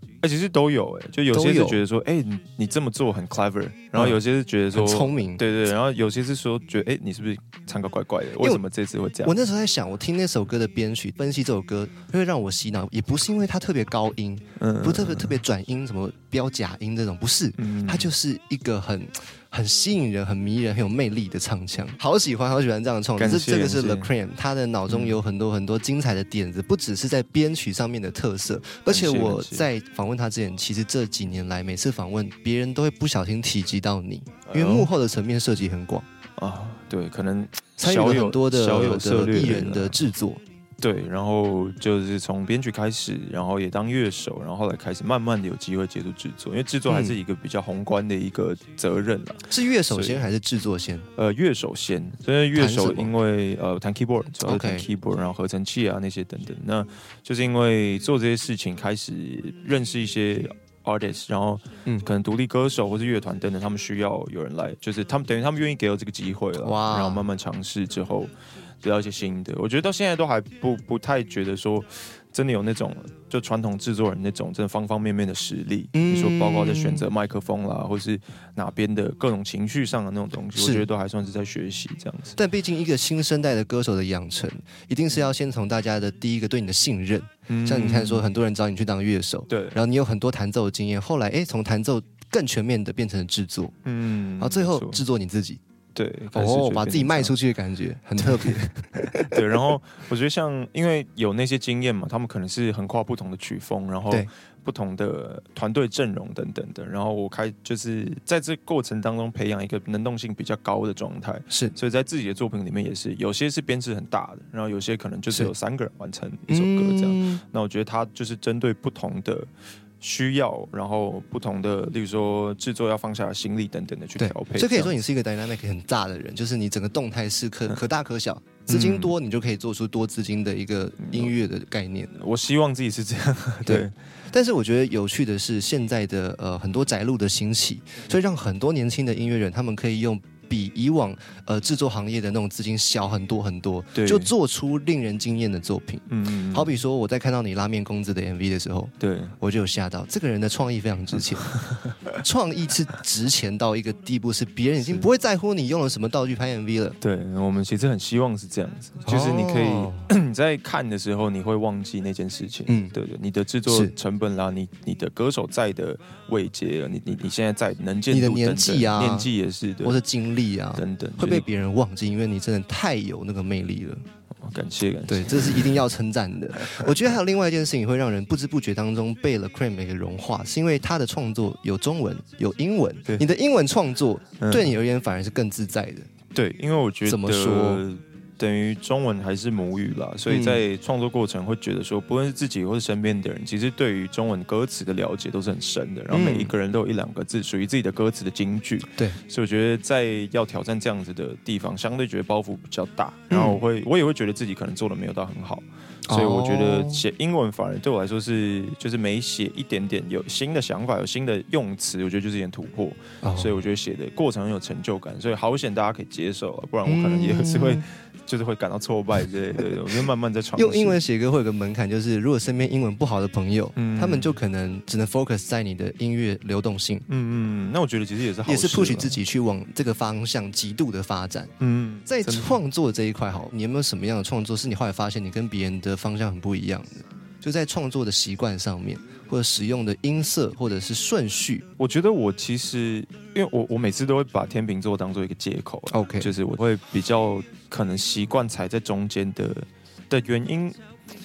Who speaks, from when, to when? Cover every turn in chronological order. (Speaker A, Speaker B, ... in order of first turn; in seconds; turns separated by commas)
Speaker A: 0.2-9.4, Speaker B: 1.3-1.8, Speaker B: 3.9-4.2, Speaker B: 4.7-5.4, Speaker B: 9.2-36.1, Speaker A: 14.6-15.4, Speaker A: 17.6-18.1, Speaker A: 23.2-24.1, Speaker A: 24.9-25.2, Speaker A: 28.9-29.7, Speaker A: 34.5-34.9, Speaker A: 36.4-40.0, Speaker B: 37.8-40.4, Speaker A: 40.8-50.3, Speaker B: 46.9-47.2, Speaker B: 49.5-51.1, Speaker A: 51.2-82.4, Speaker B: 52.5-53.1, Speaker B: 54.4-54.9, Speaker B: 66.6-67.2, Speaker B: 75.9-77.0, Speaker B: 80.6-80.9, Speaker B: 82.4-93.8, Speaker A: 87.5-88.3, Speaker A: 89.5-89.8, Speaker A: 93.8-95.0, Speaker B: 94.4-95.6, Speaker A: 96.0-97.3, Speaker B: 96.3-99.6, Speaker A: 98.2-124.9, Speaker B: 116.5-117.4, Speaker B: 124.2-132.1, Speaker A: 128.7-129.1, Speaker A: 131.0-131.3, Speaker A: 132.1-133.9, Speaker B: 133.7-151.5, Speaker A: 143.9-144.3, Speaker A: 146.1-146.7, Speaker A: 149.0-149.4, Speaker A: 151.4-152.1, Speaker B: 152.2-157.0, Speaker A: 157.0-170.0, Speaker B: 159.1-160.1, Speaker B: 162.7-162.9, Speaker B: 163.7-163.9, Speaker B: 168.1-169.3, Speaker B: 169.8-174.1, Speaker A: 170.7-171.5, Speaker A: 174.4-175.8, Speaker B: 175.1-186.1, Speaker A: 176.7-177.1, Speaker A: 184.4-184.8, Speaker A: 186.3-221.0, Speaker B: 187.1-187.8, Speaker B: 190.3-190.6, Speaker B: 196.1-196.5, Speaker B: 203.3-203.6, Speaker B: 206.1-207.1, Speaker B: 213.2-213.6, Speaker B: 216.8-217.8, Speaker B: 220.6-227.1, Speaker A: 223.8-224.4, Speaker A: 227.1-229.2, Speaker B: 228.4-231.5, Speaker A: 231.6-232.6, Speaker B: 232.1-241.7, Speaker A: 241.8-250.8, Speaker B: 245.9-246.3